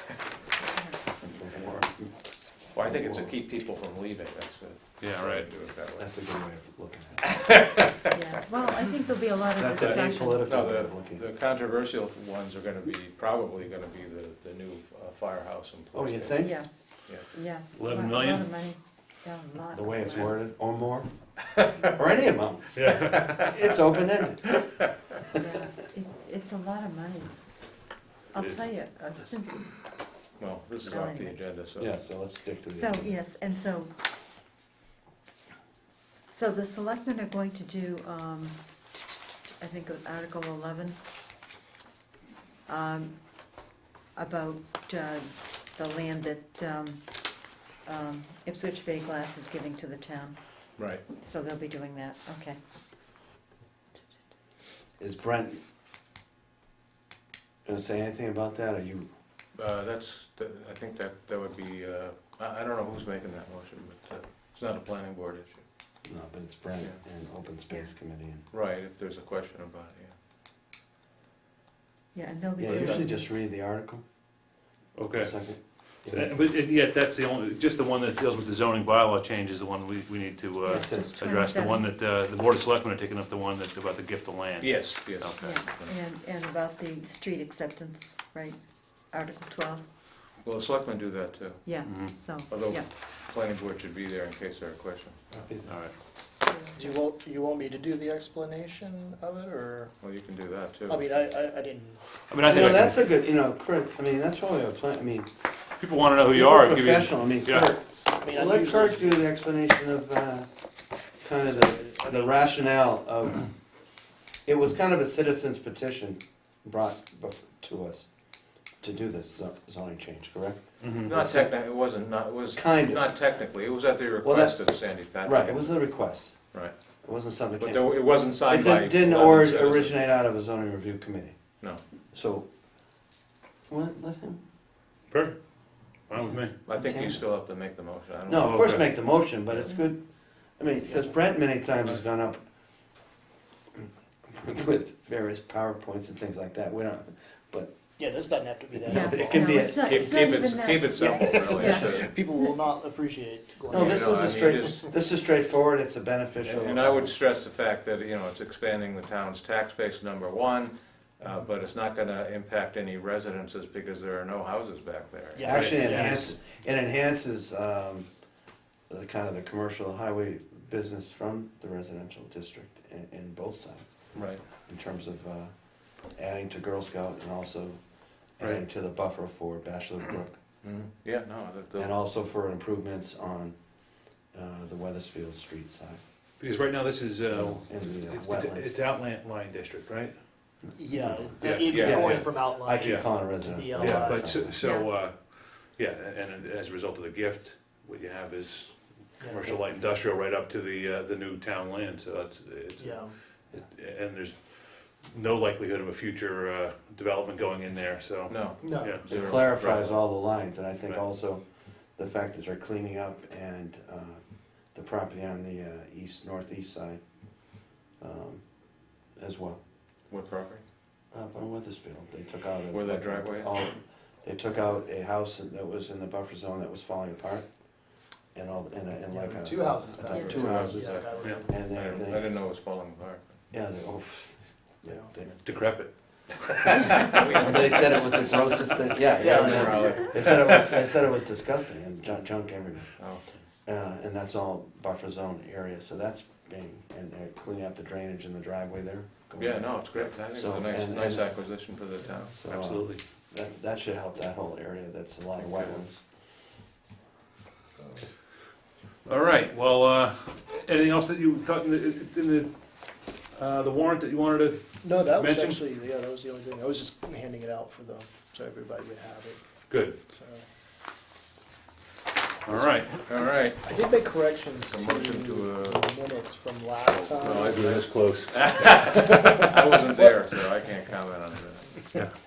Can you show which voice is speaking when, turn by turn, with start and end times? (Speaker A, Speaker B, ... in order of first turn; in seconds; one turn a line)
Speaker A: 0.6-1.8
Speaker B: 1.2-3.4
Speaker C: 2.7-6.1
Speaker D: 5.0-5.5
Speaker B: 6.0-7.6
Speaker C: 7.2-8.1
Speaker A: 8.1-10.5
Speaker B: 9.6-11.2
Speaker C: 9.7-16.5
Speaker B: 15.9-16.6
Speaker A: 16.4-20.4
Speaker D: 17.8-18.5
Speaker B: 19.7-21.1
Speaker B: 21.9-24.6
Speaker D: 22.8-23.5
Speaker C: 23.0-23.4
Speaker A: 25.4-27.4
Speaker A: 28.3-29.8
Speaker C: 30.4-32.0
Speaker A: 30.9-31.4
Speaker B: 31.8-33.1
Speaker A: 32.7-33.9
Speaker A: 36.3-38.6
Speaker A: 39.6-41.0
Speaker A: 42.7-43.6
Speaker A: 44.1-52.6
Speaker C: 50.8-51.0
Speaker B: 55.0-55.6
Speaker B: 57.6-59.1
Speaker C: 59.5-65.7
Speaker B: 66.0-68.4
Speaker C: 68.5-70.2
Speaker A: 72.1-73.3
Speaker B: 72.6-74.0
Speaker C: 72.7-73.1
Speaker D: 75.0-75.4
Speaker B: 75.2-76.4
Speaker D: 76.0-85.4
Speaker A: 80.6-81.9
Speaker B: 80.7-81.2
Speaker C: 84.6-85.9
Speaker A: 85.4-89.9
Speaker C: 90.4-91.8
Speaker A: 91.6-92.9
Speaker D: 91.8-92.2
Speaker C: 92.4-95.5
Speaker B: 95.3-95.7
Speaker D: 95.7-95.9
Speaker A: 96.4-97.0
Speaker E: 96.8-100.1
Speaker C: 100.0-101.0
Speaker E: 100.9-102.0
Speaker D: 102.3-103.1
Speaker B: 102.4-105.3
Speaker D: 105.8-107.7
Speaker B: 106.3-110.5
Speaker E: 108.2-109.3
Speaker B: 111.2-113.5
Speaker E: 111.5-112.6
Speaker B: 114.5-118.1
Speaker B: 118.8-121.6
Speaker D: 120.8-121.1
Speaker C: 121.0-126.7
Speaker B: 122.5-123.1
Speaker B: 124.2-131.6
Speaker C: 127.6-130.0
Speaker B: 132.1-132.5
Speaker B: 133.7-134.4
Speaker D: 135.1-135.4
Speaker D: 136.1-136.6
Speaker B: 136.1-137.3
Speaker C: 136.6-138.8
Speaker B: 138.2-142.4
Speaker D: 138.4-138.9
Speaker B: 143.7-147.7
Speaker E: 148.0-154.8
Speaker B: 148.8-150.0
Speaker A: 148.9-152.5
Speaker C: 149.8-152.1
Speaker B: 153.7-157.1
Speaker C: 153.7-154.8
Speaker C: 156.4-165.5
Speaker E: 161.2-161.6
Speaker E: 165.3-166.3
Speaker B: 165.4-168.1
Speaker D: 165.5-166.3
Speaker B: 168.9-180.4
Speaker C: 174.1-174.4
Speaker C: 180.6-182.0
Speaker B: 181.7-186.0
Speaker D: 186.4-190.1
Speaker B: 187.3-188.8
Speaker E: 190.7-194.6
Speaker D: 191.4-193.1
Speaker C: 191.7-192.1
Speaker B: 191.7-194.6
Speaker D: 193.7-209.4
Speaker A: 194.6-194.9
Speaker E: 199.2-199.7
Speaker E: 202.8-203.1
Speaker C: 208.3-210.1
Speaker E: 208.6-209.0
Speaker B: 209.0-219.6
Speaker C: 220.1-220.6
Speaker B: 221.1-232.3
Speaker C: 222.7-223.7
Speaker E: 229.1-231.8
Speaker C: 230.1-233.3
Speaker B: 233.5-235.3
Speaker E: 234.8-235.1
Speaker D: 235.4-237.1
Speaker C: 237.0-238.4
Speaker B: 237.0-242.9
Speaker C: 239.0-240.9
Speaker E: 239.2-240.2
Speaker C: 243.0-243.3
Speaker B: 243.7-251.4
Speaker C: 249.4-252.4
Speaker B: 252.3-256.0
Speaker D: 252.5-253.0
Speaker C: 255.4-255.8
Speaker E: 257.8-258.1
Speaker D: 259.1-265.6
Speaker E: 264.8-269.4
Speaker D: 269.7-270.0
Speaker E: 270.1-270.4
Speaker D: 272.5-273.1
Speaker E: 272.5-277.7
Speaker C: 273.1-273.6
Speaker C: 274.6-275.9
Speaker D: 277.0-278.9
Speaker C: 277.2-281.7
Speaker E: 278.9-280.7
Speaker E: 281.8-282.1